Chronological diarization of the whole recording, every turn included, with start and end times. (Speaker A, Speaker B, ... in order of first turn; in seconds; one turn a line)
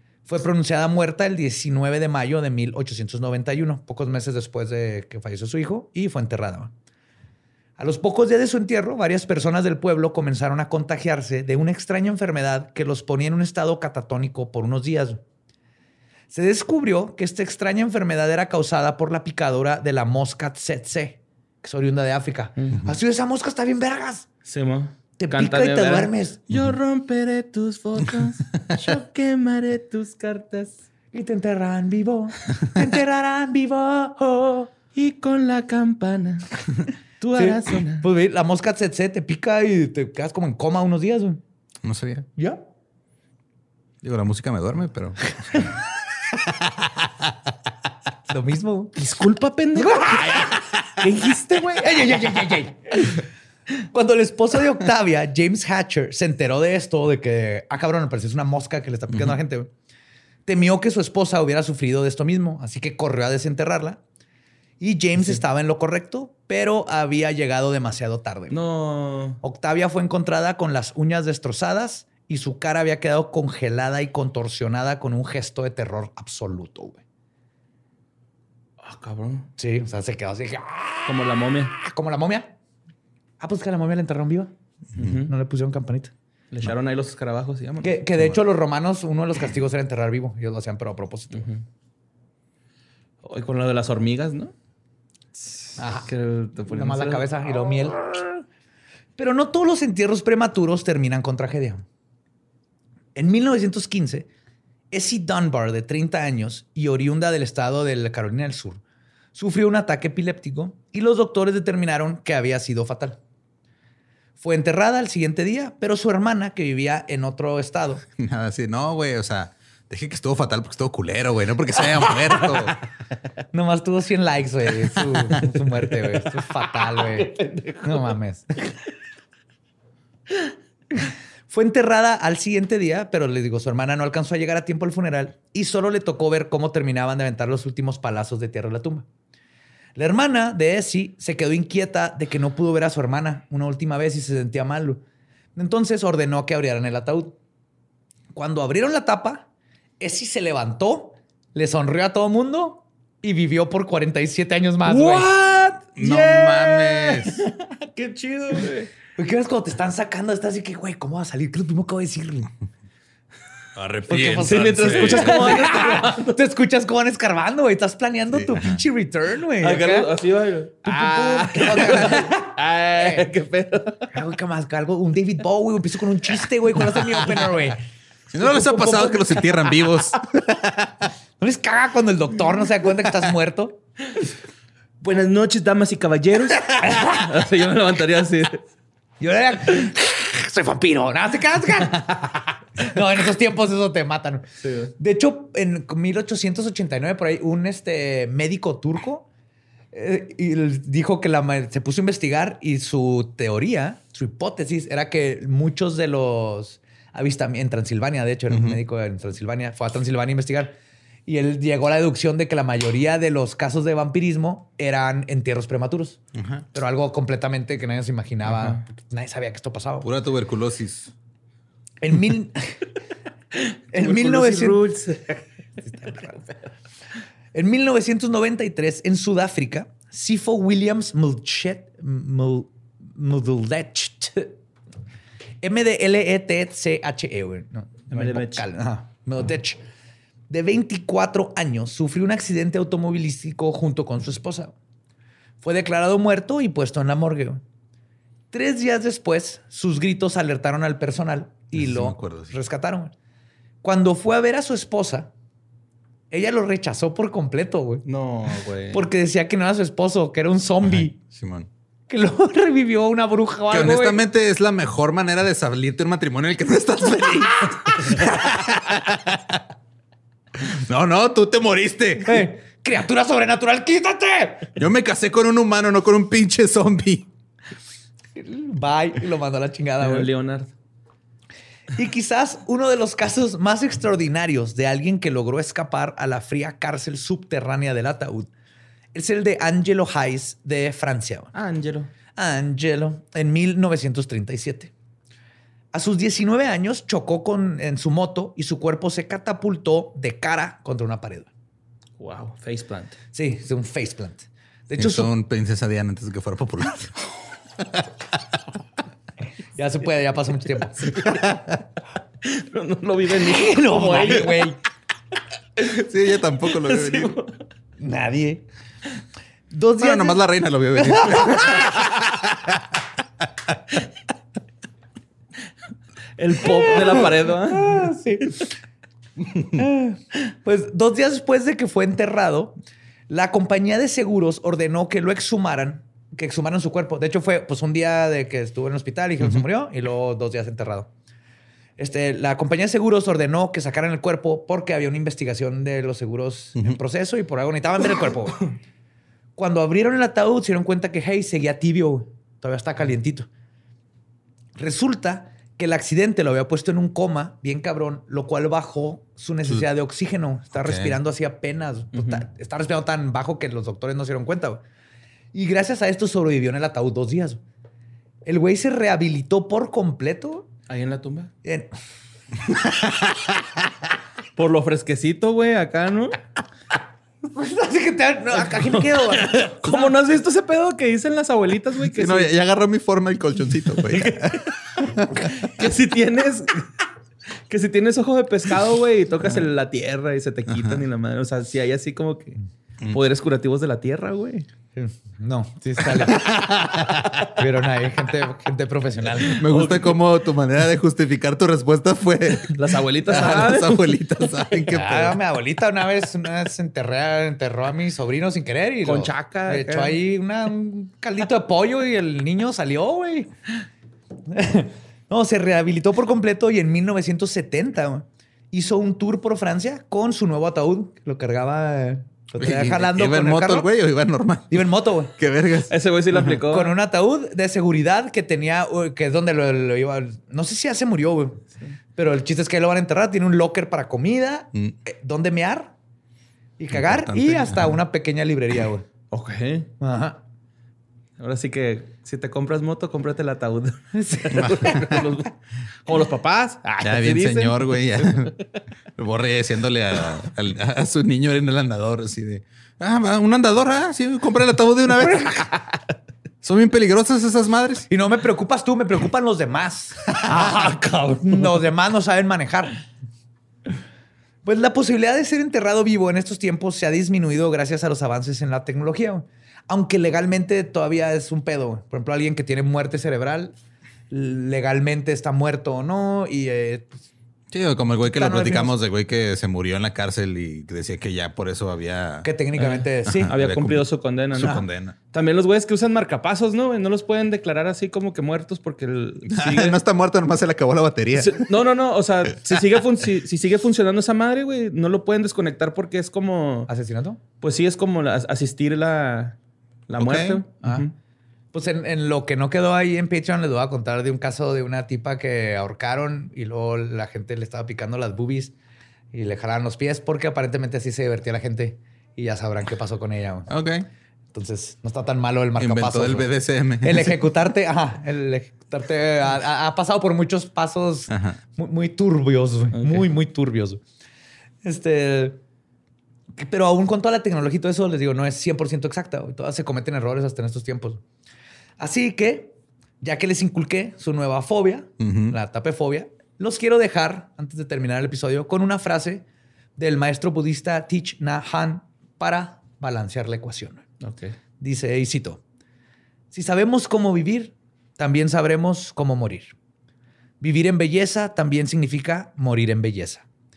Speaker A: 0.3-6.7
Speaker A: 7.8-15.2
Speaker A: 16.3-24.3
Speaker B: 24.4-30.8
Speaker A: 25.2-26.4
Speaker C: 26.5-26.8
Speaker A: 31.1-34.7
Speaker B: 35.0-36.6
Speaker B: 37.2-38.0
Speaker A: 37.3-41.4
Speaker C: 41.8-42.3
Speaker A: 42.4-42.6
Speaker C: 44.0-45.7
Speaker C: 46.5-46.9
Speaker A: 48.3-49.0
Speaker B: 49.0-52.1
Speaker A: 49.8-53.2
Speaker A: 53.9-59.7
Speaker A: 60.5-64.0
Speaker A: 64.8-68.6
Speaker B: 68.5-69.4
Speaker A: 69.4-77.0
Speaker B: 78.8-79.5
Speaker A: 79.6-82.5
Speaker B: 81.1-81.8
Speaker A: 83.4-84.5
Speaker B: 85.0-85.3
Speaker A: 85.3-86.1
Speaker B: 86.5-88.0
Speaker A: 87.8-91.5
Speaker B: 93.2-94.5
Speaker A: 95.8-96.1
Speaker B: 96.0-97.3
Speaker A: 96.7-98.4
Speaker A: 99.2-101.8
Speaker A: 103.2-104.3
Speaker A: 104.9-108.8
Speaker A: 109.3-113.2
Speaker A: 114.4-118.0
Speaker C: 118.1-122.8
Speaker A: 123.5-128.7
Speaker B: 126.6-128.1
Speaker A: 130.9-139.1
Speaker A: 140.0-145.0
Speaker A: 145.6-147.4
Speaker A: 148.3-149.5
Speaker A: 150.0-155.3
Speaker B: 154.8-158.9
Speaker C: 156.0-157.4
Speaker A: 156.0-156.7
Speaker A: 159.2-162.5
Speaker C: 163.8-165.6
Speaker A: 164.1-170.1
Speaker B: 164.4-166.4
Speaker C: 168.3-168.8
Speaker B: 169.6-174.1
Speaker A: 170.8-173.3
Speaker A: 174.1-177.8
Speaker C: 178.3-181.0
Speaker A: 178.4-179.5
Speaker A: 181.4-183.8
Speaker B: 185.0-188.6
Speaker A: 189.2-194.4
Speaker B: 194.6-194.9
Speaker A: 195.0-199.3
Speaker A: 199.9-210.8
Speaker C: 208.5-208.8
Speaker A: 211.3-216.2
Speaker C: 216.3-216.7
Speaker A: 216.7-220.1
Speaker C: 220.0-221.1
Speaker A: 222.0-222.9
Speaker A: 223.9-225.0
Speaker B: 223.9-225.5
Speaker A: 225.8-226.4
Speaker A: 227.5-234.6
Speaker A: 235.6-239.8
Speaker B: 238.1-238.7
Speaker A: 240.5-244.7
Speaker A: 245.6-247.6
Speaker A: 248.5-253.1
Speaker C: 251.8-252.6
Speaker A: 253.8-255.3
Speaker A: 256.3-258.1
Speaker B: 258.1-259.0
Speaker A: 258.9-261.1
Speaker C: 260.9-261.7
Speaker A: 262.1-264.2
Speaker C: 263.7-269.6
Speaker A: 267.7-268.2
Speaker C: 270.7-272.5
Speaker A: 272.2-274.7
Speaker C: 274.8-277.3
Speaker A: 278.4-280.3
Speaker B: 280.0-280.7
Speaker A: 281.9-288.5
Speaker A: 289.1-291.5
Speaker B: 291.5-292.1
Speaker A: 292.4-294.9
Speaker A: 295.9-301.5
Speaker B: 302.2-303.2
Speaker A: 303.3-305.3
Speaker C: 305.0-307.2
Speaker A: 309.8-311.2
Speaker C: 311.4-311.8
Speaker B: 312.4-314.7
Speaker A: 313.4-314.8
Speaker C: 315.8-317.3
Speaker B: 316.8-317.5
Speaker A: 318.0-318.6
Speaker A: 319.7-320.4
Speaker C: 320.0-322.8
Speaker A: 320.9-322.1
Speaker B: 326.4-328.1
Speaker A: 327.0-328.7
Speaker A: 329.7-332.8
Speaker A: 333.3-341.1
Speaker A: 342.0-348.7
Speaker A: 349.6-353.5
Speaker A: 354.8-364.8
Speaker C: 360.7-361.2
Speaker B: 362.1-362.4
Speaker A: 365.5-367.6
Speaker A: 368.4-370.7
Speaker B: 370.9-371.5
Speaker A: 371.6-371.9
Speaker A: 372.6-373.8
Speaker B: 374.6-376.4
Speaker A: 377.4-380.1
Speaker B: 378.8-382.5
Speaker C: 382.2-385.5
Speaker B: 384.1-386.9
Speaker B: 387.7-394.7
Speaker C: 390.7-391.0
Speaker A: 394.9-399.6
Speaker C: 396.3-397.4
Speaker C: 399.6-405.3
Speaker B: 399.7-400.1
Speaker B: 402.7-404.9
Speaker A: 404.9-413.5
Speaker B: 409.1-410.2
Speaker A: 414.5-423.9
Speaker C: 422.6-424.8
Speaker A: 424.7-425.3
Speaker C: 425.4-425.9
Speaker B: 425.9-426.9
Speaker A: 426.6-435.9
Speaker A: 436.8-439.1
Speaker C: 436.9-438.0
Speaker B: 439.3-439.9
Speaker A: 440.0-440.4
Speaker B: 441.4-445.5
Speaker A: 444.1-445.0
Speaker C: 444.5-445.2
Speaker B: 446.1-448.5
Speaker C: 447.0-448.6
Speaker C: 449.2-455.7
Speaker C: 456.6-458.1
Speaker A: 458.1-463.0
Speaker B: 460.5-461.7
Speaker A: 464.6-473.8
Speaker A: 474.3-477.3
Speaker C: 477.7-482.5
Speaker A: 478.3-478.9
Speaker A: 482.4-483.5
Speaker B: 482.8-490.0
Speaker C: 483.3-485.1
Speaker C: 489.5-491.6
Speaker B: 491.3-496.9
Speaker A: 496.9-497.4
Speaker B: 497.6-499.6
Speaker B: 500.1-501.1
Speaker C: 500.1-500.6
Speaker A: 500.8-501.1
Speaker A: 501.7-508.8
Speaker A: 509.3-513.7
Speaker C: 513.7-514.1
Speaker A: 514.5-524.0
Speaker C: 515.8-517.4
Speaker C: 521.3-521.6
Speaker B: 522.9-523.3
Speaker A: 524.8-525.6
Speaker A: 526.6-531.2
Speaker A: 532.0-539.5
Speaker C: 535.2-535.6
Speaker A: 540.0-544.0
Speaker B: 544.2-544.6
Speaker A: 544.8-545.6
Speaker A: 546.5-549.7
Speaker A: 550.6-553.5